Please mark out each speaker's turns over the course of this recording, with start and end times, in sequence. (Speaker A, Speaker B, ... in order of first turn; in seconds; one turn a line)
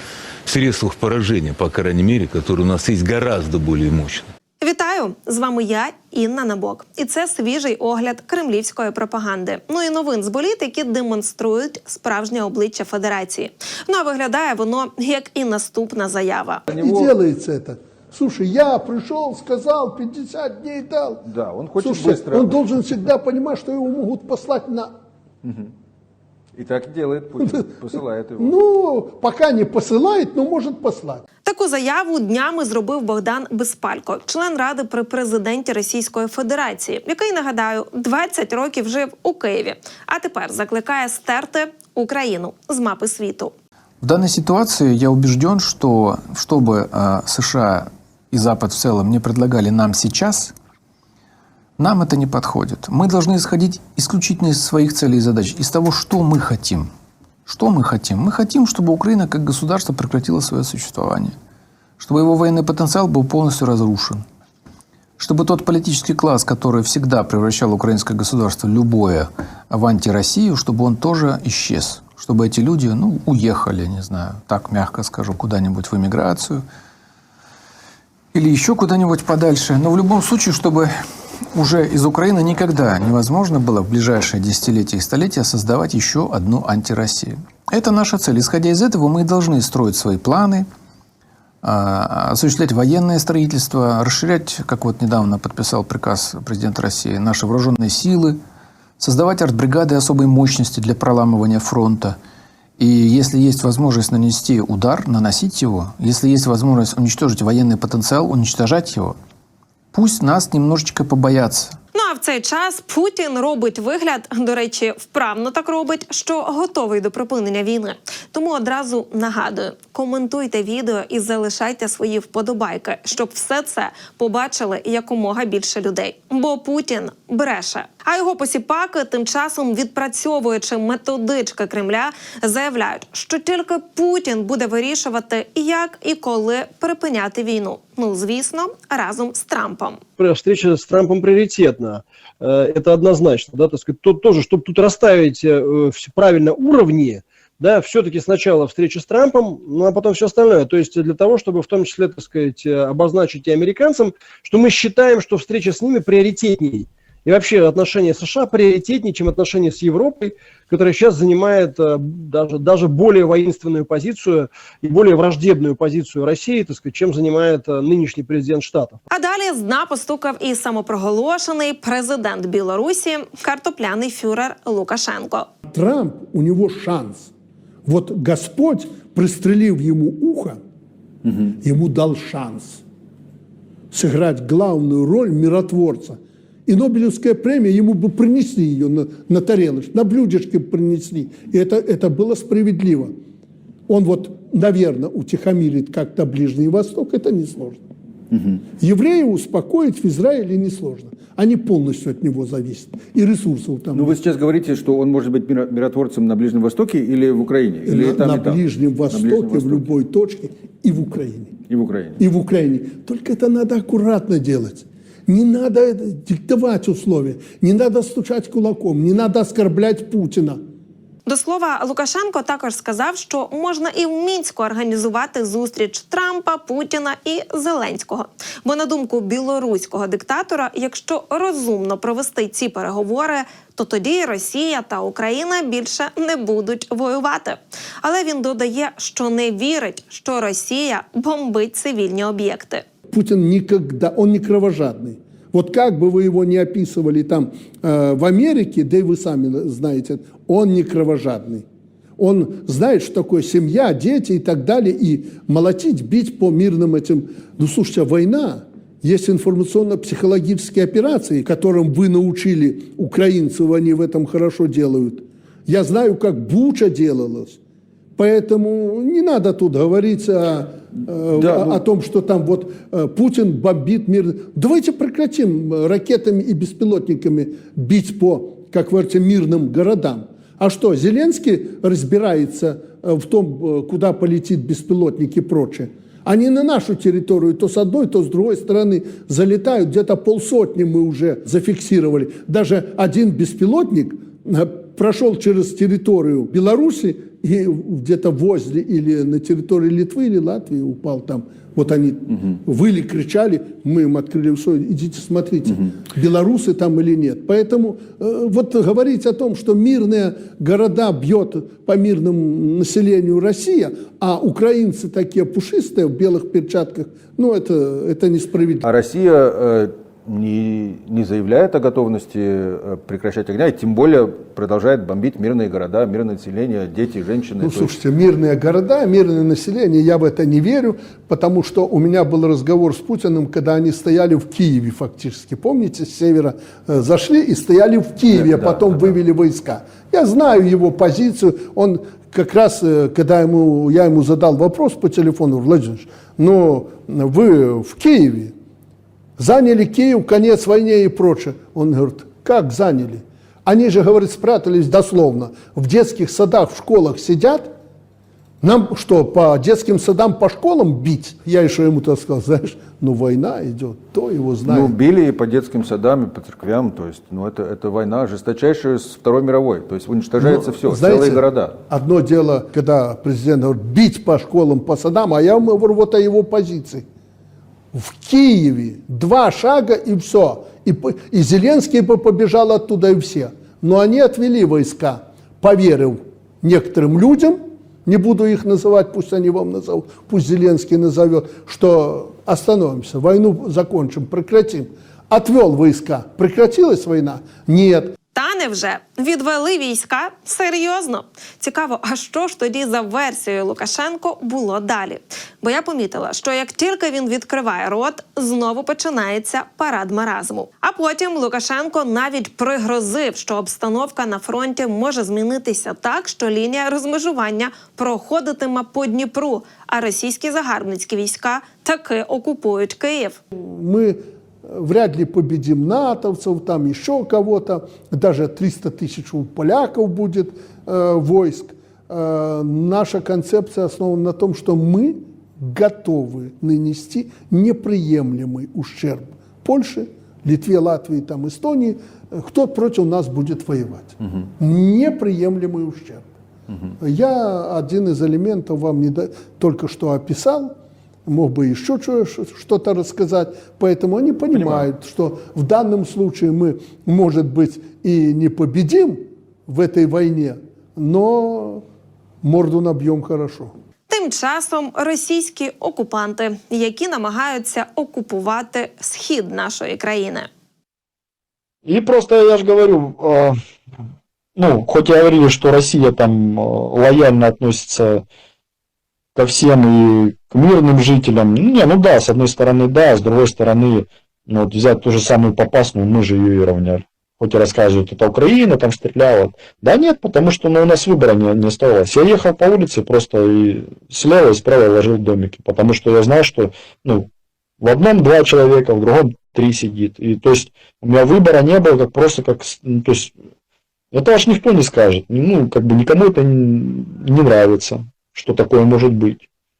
Speaker A: 0.5-4.3
Speaker B: 4.6-16.6
Speaker C: 16.7-17.2
Speaker D: 16.8-21.2
Speaker C: 21.2-22.7
Speaker D: 21.8-24.9
Speaker C: 25.4-25.7
Speaker C: 26.6-28.6
Speaker D: 28.4-31.2
Speaker B: 31.4-43.5
Speaker E: 44.0-50.5
Speaker E: 51.8-56.9
Speaker E: 57.5-61.3
Speaker E: 62.0-64.2
Speaker E: 65.2-76.6
Speaker E: 78.3-80.9
Speaker E: 81.5-90.6
Speaker E: 91.6-98.4
Speaker E: 99.0-102.1
Speaker E: 102.8-109.1
Speaker E: 109.9-111.8
Speaker B: 111.9-140.0
Speaker F: 140.2-169.0
Speaker B: 169.1-175.5
Speaker D: 175.7-177.3
Speaker D: 177.9-180.6
Speaker D: 181.6-182.8
Speaker D: 183.9-193.1
Speaker D: 193.9-197.8
Speaker C: 198.3-198.6
Speaker D: 198.8-204.1
Speaker C: 203.9-209.9
Speaker D: 208.0-211.5
Speaker C: 211.7-212.2
Speaker D: 212.2-220.5
Speaker B: 221.2-242.8
Speaker D: 243.1-251.6
Speaker D: 252.2-267.5
Speaker D: 268.2-318.8
Speaker C: 271.3-271.9
Speaker C: 318.8-328.0
Speaker D: 327.6-348.4
Speaker C: 338.3-339.2
Speaker D: 349.4-357.6
Speaker D: 358.6-364.6
Speaker C: 364.6-371.8
Speaker D: 371.2-377.0
Speaker D: 377.9-398.1
Speaker B: 398.3-423.4
Speaker D: 423.6-424.1
Speaker D: 424.7-444.1
Speaker D: 444.6-446.3
Speaker D: 447.0-450.7
Speaker D: 451.3-459.1
Speaker C: 454.5-454.9
Speaker D: 459.7-461.8
Speaker D: 462.4-463.7
Speaker B: 464.1-470.5
Speaker G: 471.8-473.6
Speaker G: 474.6-478.2
Speaker G: 479.3-497.3
Speaker G: 497.8-503.3
Speaker G: 504.1-509.4